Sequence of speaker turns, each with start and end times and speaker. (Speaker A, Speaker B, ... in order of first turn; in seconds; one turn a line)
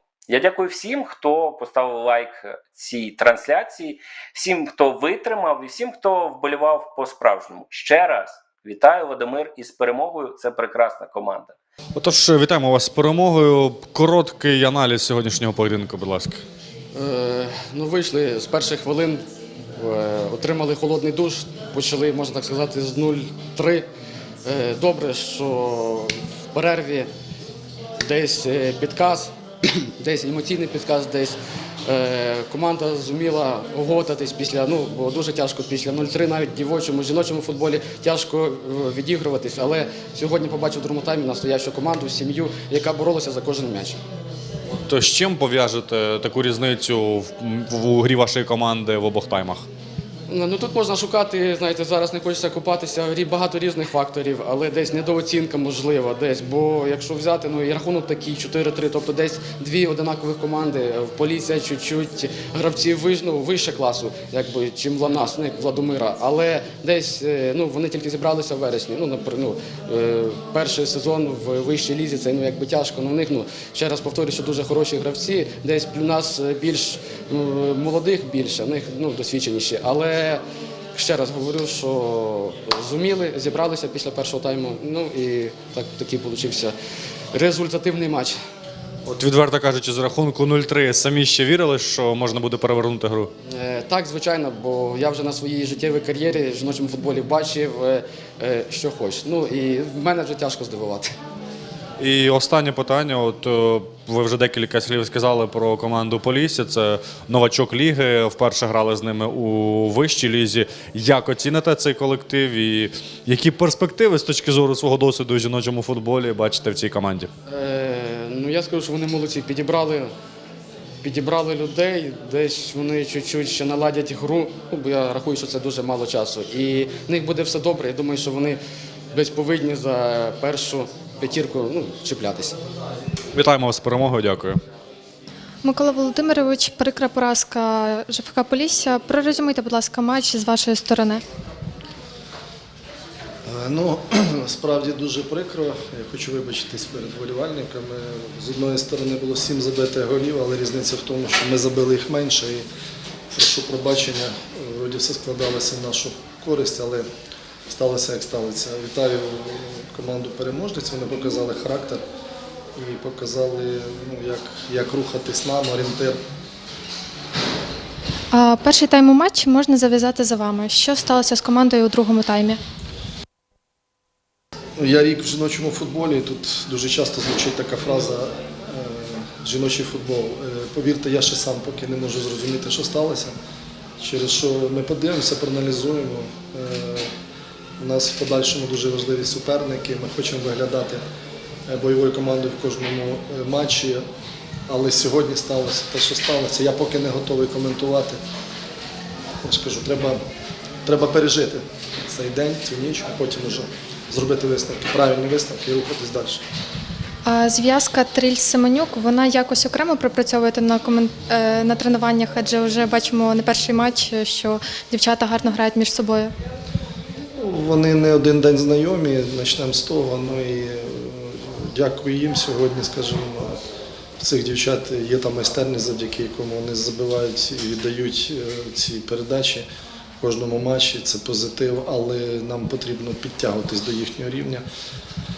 Speaker A: 0.3-11.6
Speaker B: 11.9-16.4
Speaker C: 16.9-19.2
Speaker C: 19.8-23.9
Speaker C: 24.4-27.1
Speaker C: 28.0-44.0
Speaker B: 44.7-49.7
Speaker C: 50.3-80.4
Speaker C: 80.9-86.8
Speaker C: 87.3-88.4
Speaker B: 89.1-93.3
Speaker C: 93.5-101.1
Speaker B: 102.0-117.3
Speaker C: 117.5-120.1
Speaker C: 121.0-128.6
Speaker C: 129.1-132.6
Speaker B: 133.3-134.6
Speaker D: 135.6-141.2
Speaker E: 143.5-152.7
Speaker E: 153.3-157.1
Speaker E: 157.7-162.0
Speaker E: 162.8-166.2
Speaker D: 168.3-172.6
Speaker E: 174.8-183.3
Speaker E: 184.0-187.1
Speaker E: 187.8-191.0
Speaker E: 191.7-194.1
Speaker E: 194.7-198.2
Speaker E: 199.4-200.2
Speaker E: 200.9-206.4
Speaker D: 207.2-216.3
Speaker E: 217.4-223.6
Speaker E: 224.2-229.7
Speaker E: 230.2-234.6